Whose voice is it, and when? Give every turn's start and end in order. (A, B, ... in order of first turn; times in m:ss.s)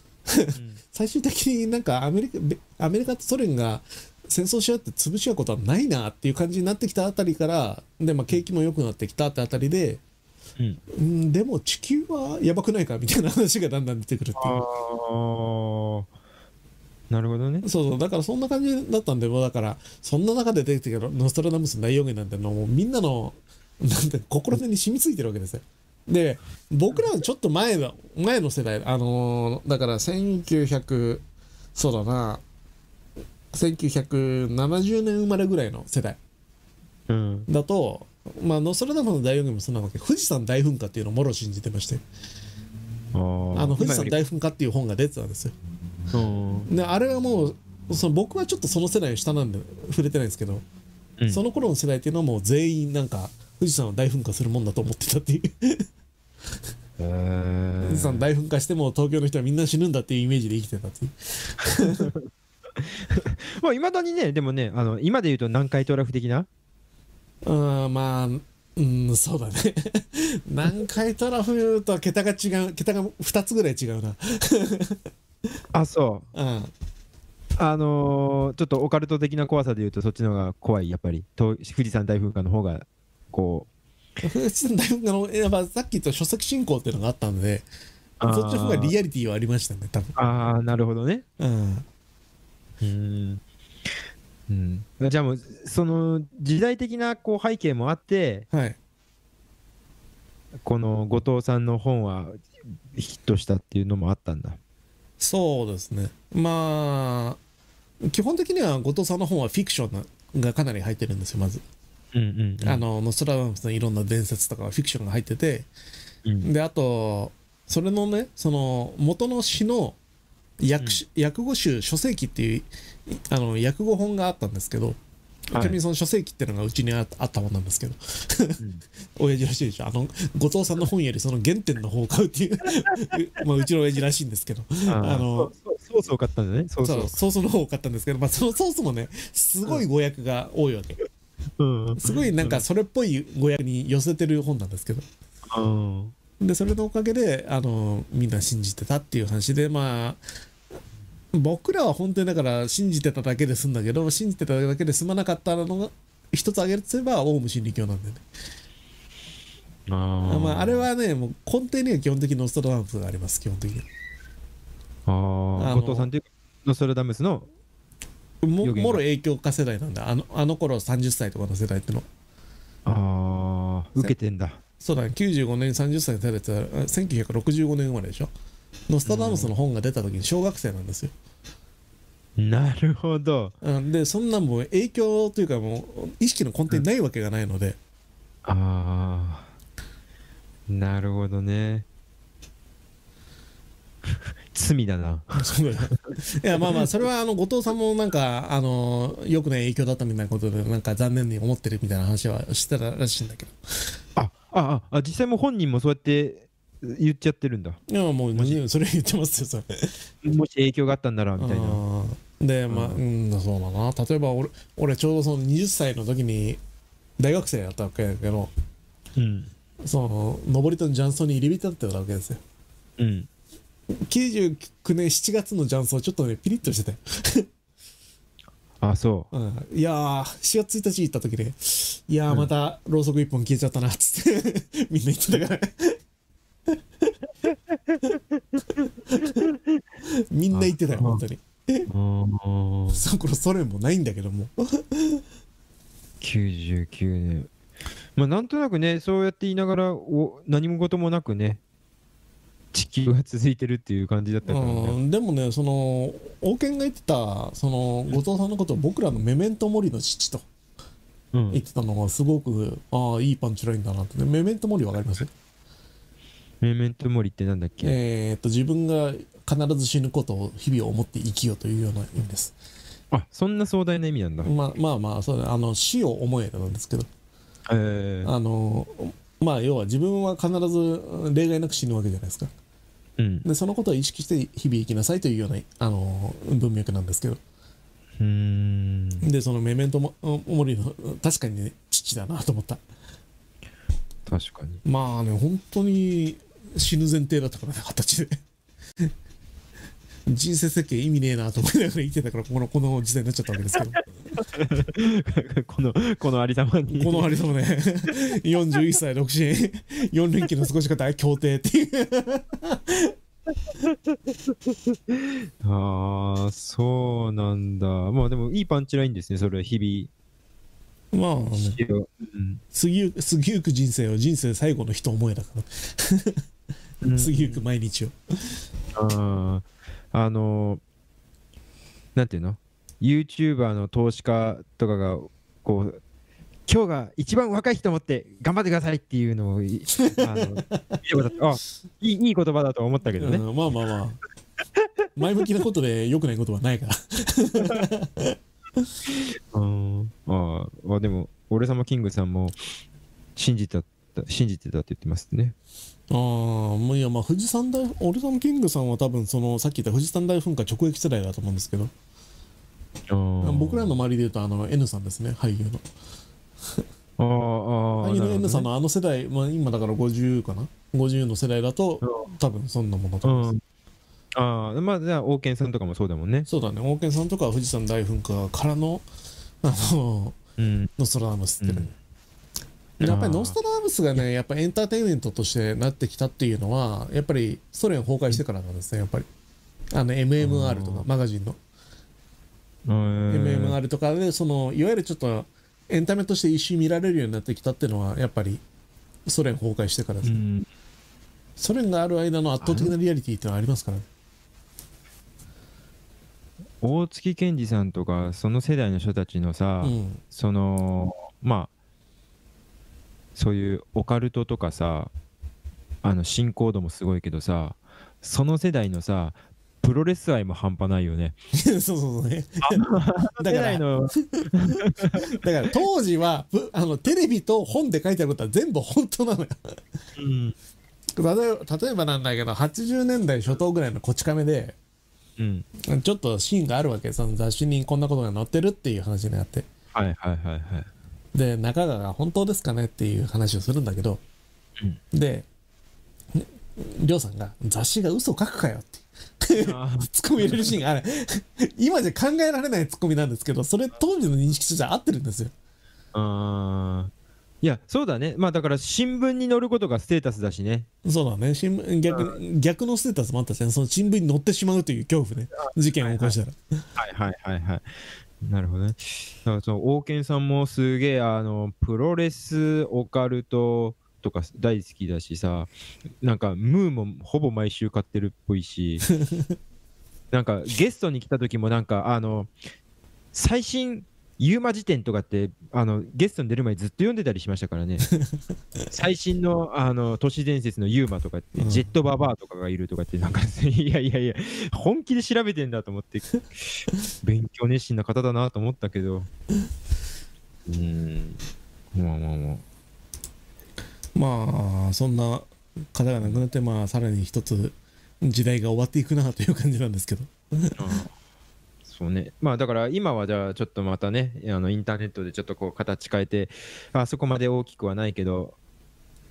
0:00.3-0:10.0 A
0:00.5-0:00.8 B
0:10.9-0:14.6 A
0:14.4-0:16.1 B
0:17.1-0:17.6 B
0:17.6-0:31.2 A
0:31.7-0:32.4 A
0:33.5-0:36.2 A
0:37.1-0:37.5 B
0:37.5-0:42.0 A
0:43.1-0:44.2 B
0:43.5-0:45.5 A
0:46.1-0:46.7 B
0:46.7-0:50.6 A
0:51.3-0:55.8 A
0:57.0-0:58.2 B
0:57.8-1:02.1 A
1:01.8-1:02.3 B
1:02.8-1:06.5 B
1:07.4-1:15.0 A
1:15.7-1:16.2 B
1:16.3-1:16.7 A
1:17.6-1:23.7 B
1:24.2-1:27.7 A
1:28.2-1:28.9 B
1:28.3-1:30.2 A
1:30.2-1:31.2 B
1:31.4-1:31.8 A
1:32.8-1:33.4 B
1:34.5-1:38.4 B
1:38.5-1:38.8 A
1:40.6-1:44.6 B
1:45.2-1:47.4 A
1:48.0-1:51.6 A
1:52.1-1:52.8 B
1:52.6-1:55.7 A
1:56.4-2:00.0 A
2:00.6-2:05.0 A
2:05.5-2:05.8 B
2:05.5-2:08.6 A
2:09.2-2:15.5 A
2:14.8-2:17.2 B
2:16.8-2:21.0 A
2:21.6-2:22.6 B
2:22.0-2:25.0 A
2:25.5-2:26.1 B
2:26.4-2:30.2 A
2:31.3-2:38.2 A
2:39.9-2:40.9 B
2:40.3-2:43.8 A
2:45.0-2:47.5 B
2:45.6-2:46.1 A
2:48.4-2:52.0 A
2:48.6-2:49.0 B
2:52.8-2:54.6 B
2:54.8-2:58.3 A
2:58.9-3:01.1 A
2:59.0-2:59.5 B
3:02.4-3:03.5 B
3:03.6-3:07.8 A
3:08.4-3:09.5 B
3:10.7-3:11.8 B
3:14.5-3:16.1 B
3:15.4-3:23.5 A
3:24.2-3:27.8 B
3:27.9-3:30.0 A
3:30.2-3:31.8 B
3:31.4-3:36.6 A
3:32.7-3:33.0 B
3:37.2-3:38.5 A
3:39.2-3:39.5 B
3:39.8-3:42.4 A
3:43.0-3:43.3 B
3:44.1-3:47.5 A
3:48.8-3:49.3 B
3:49.3-3:56.0 A
3:56.7-3:57.1 A
3:57.5-3:58.0 B
3:58.8-3:59.5 A
3:59.2-3:59.8 B
4:00.1-4:01.9 A
4:00.5-4:01.2 B
4:01.9-4:03.0 B
4:02.9-4:05.2 A
4:06.2-4:07.5 B
4:08.2-4:11.6 B
4:12.7-4:15.0 B
4:14.5-4:20.4 A
4:21.3-4:21.6 B
4:21.5-4:25.3 A
4:26.6-4:27.9 B
4:27.8-4:32.5 A
4:33.1-4:34.5 B
4:34.4-4:37.1 A
4:37.7-4:38.3 B
4:38.2-4:42.5 A
4:43.2-4:43.4 B
4:43.4-4:47.4 A
4:48.2-4:49.2 B
4:49.2-4:52.8 A
4:54.3-4:54.8 B
4:54.8-4:58.3 A
5:00.3-5:04.0 A
5:04.3-5:07.3 B
5:06.9-5:13.1 A
5:13.8-5:20.1 B
5:21.1-5:21.8 A
5:21.5-5:22.6 B
5:22.7-5:26.4 A
5:27.0-5:27.6 B
5:27.1-5:28.6 A
5:28.9-5:30.8 B
5:32.2-5:36.0 B
5:36.7-5:43.4 B
5:40.0-5:40.8 A
5:43.2-5:44.2 A
5:45.2-5:48.9 A
5:49.2-5:52.6 B
5:53.4-5:55.5 B
5:56.1-6:01.9 A
6:03.1-6:03.9 B
6:03.4-6:05.8 A
6:07.2-6:08.7 B
6:08.0-6:13.5 A
6:12.0-6:12.3 B
6:13.2-6:13.6 B
6:14.3-6:16.5 B
6:16.5-6:19.0 A
6:19.6-6:20.4 A
6:20.6-6:20.9 B
6:21.0-6:21.9 A
6:21.6-6:21.9 B
6:23.0-6:29.3 A
6:23.0-6:23.6 B
6:29.9-6:31.6 A
6:30.4-6:31.1 B
6:32.9-6:33.8 B
6:33.3-6:38.6 A
6:39.3-6:40.4 A
6:40.2-6:40.7 B
6:41.6-6:44.0 A
6:42.6-6:42.9 B
6:46.8-6:51.7 B
6:49.8-6:50.2 A
6:53.3-6:55.1 B
6:56.0-7:01.4 B
7:01.5-7:02.8 A
7:02.6-7:05.3 B
7:03.4-7:09.8 A
7:10.2-7:10.5 B
7:11.2-7:14.8 A
7:15.4-7:15.6 B
7:15.8-7:19.6 A
7:19.9-7:20.9 B
7:21.3-7:24.2 A
7:25.1-7:25.4 A
7:26.3-7:35.5 A
7:29.5-7:30.7 B
7:36.1-7:40.9 B
7:41.0-7:46.6 A
7:42.1-7:42.4 B
7:45.5-7:46.4 B
7:47.0-7:47.9 B
7:48.4-7:59.1 B
7:59.2-7:59.5 A
8:00.3-8:02.5 B
8:03.3-8:08.1 B
8:08.9-8:19.3 B
8:11.6-8:11.9 A
8:20.6-8:21.4 B
8:21.9-8:22.6 B
8:24.1-8:30.8 A
8:30.8-8:31.1 B
8:31.9-8:38.6 B